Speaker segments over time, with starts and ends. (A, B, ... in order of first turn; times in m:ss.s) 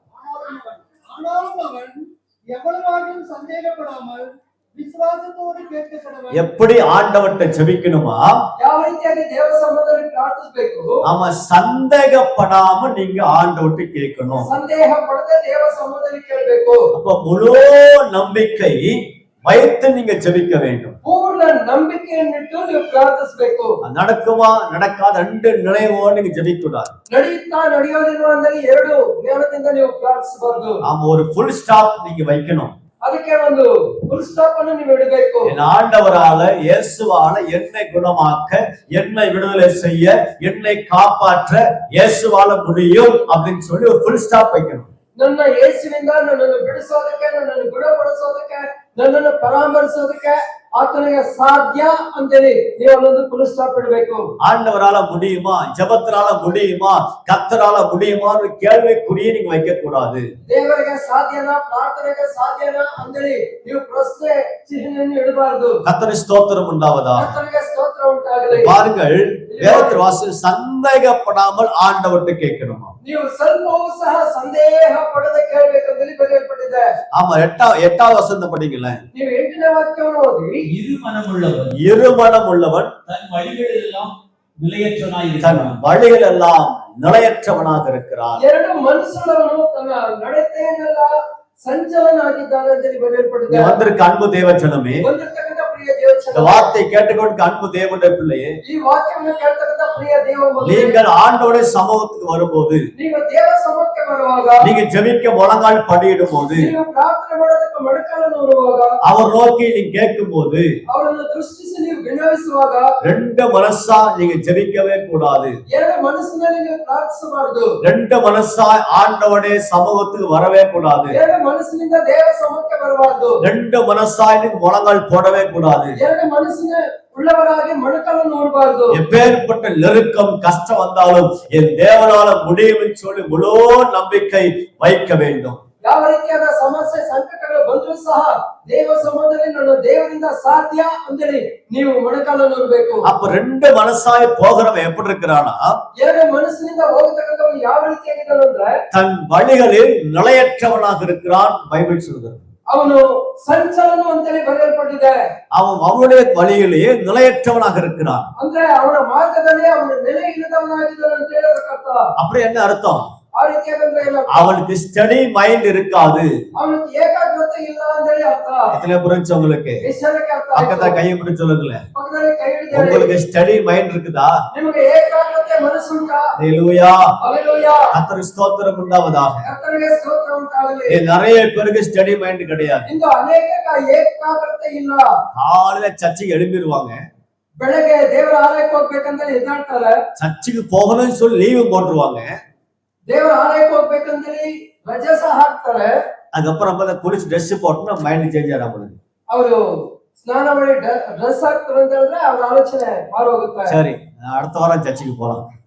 0:00.1-0:06.4 A
0:06.3-0:08.4 B
0:08.6-0:11.0 C
0:11.0-0:14.5 B
0:14.4-0:16.9 C
0:16.9-0:21.0 B
0:21.0-0:23.8 C
0:23.8-0:26.9 B
0:27.1-0:30.8 C
0:30.8-0:32.8 B
0:33.0-0:35.5 C
0:35.5-0:44.9 B
0:45.2-0:54.3 C
0:54.4-1:00.3 B
1:00.5-1:05.8 C
1:05.9-1:07.4 B
1:07.2-1:08.8 C
1:08.5-1:12.9 B
1:09.5-1:10.0 C
1:13.0-1:16.9 C
1:17.1-1:19.0 B
1:19.1-1:20.6 C
1:20.7-1:21.8 D
1:21.7-1:23.0 B
1:23.1-1:25.8 D
1:25.4-1:28.4 B
1:28.4-1:31.1 C
1:31.6-1:33.8 C
1:33.5-1:35.1 B
1:35.0-1:36.8 C
1:36.3-1:38.6 B
1:38.6-1:41.0 C
1:40.6-1:42.8 B
1:43.0-1:44.7 C
1:44.6-1:46.7 B
1:46.5-1:48.9 C
1:49.0-1:50.7 B
1:50.9-1:52.9 C
1:53.0-1:55.6 B
1:55.7-1:57.7 C
1:57.8-2:01.2 B
2:01.1-2:03.4 C
2:03.4-2:06.0 B
2:06.0-2:09.0 C
2:08.9-2:15.6 B
2:15.8-2:23.1 C
2:23.0-2:25.8 B
2:26.0-2:28.7 C
2:28.9-2:32.5 B
2:32.7-2:35.2 C
2:35.5-2:38.3 B
2:38.4-2:42.0 C
2:42.2-2:43.1 B
2:43.4-2:44.5 C
2:44.3-2:46.3 B
2:46.6-2:48.7 C
2:48.7-2:49.8 B
2:49.8-2:51.0 C
2:50.6-2:51.8 B
2:51.9-2:53.1 C
2:52.7-2:54.4 B
2:54.5-2:56.3 C
2:56.4-2:57.0 B
2:57.2-2:57.9 C
2:57.9-2:59.5 B
2:59.4-3:01.0 C
3:00.9-3:02.9 B
3:02.9-3:05.1 C
3:05.4-3:07.0 B
3:07.6-3:10.0 C
3:10.2-3:12.4 B
3:13.1-3:16.0 C
3:16.3-3:19.0 B
3:19.3-3:19.6 C
3:20.2-3:23.8 C
3:23.7-3:25.4 B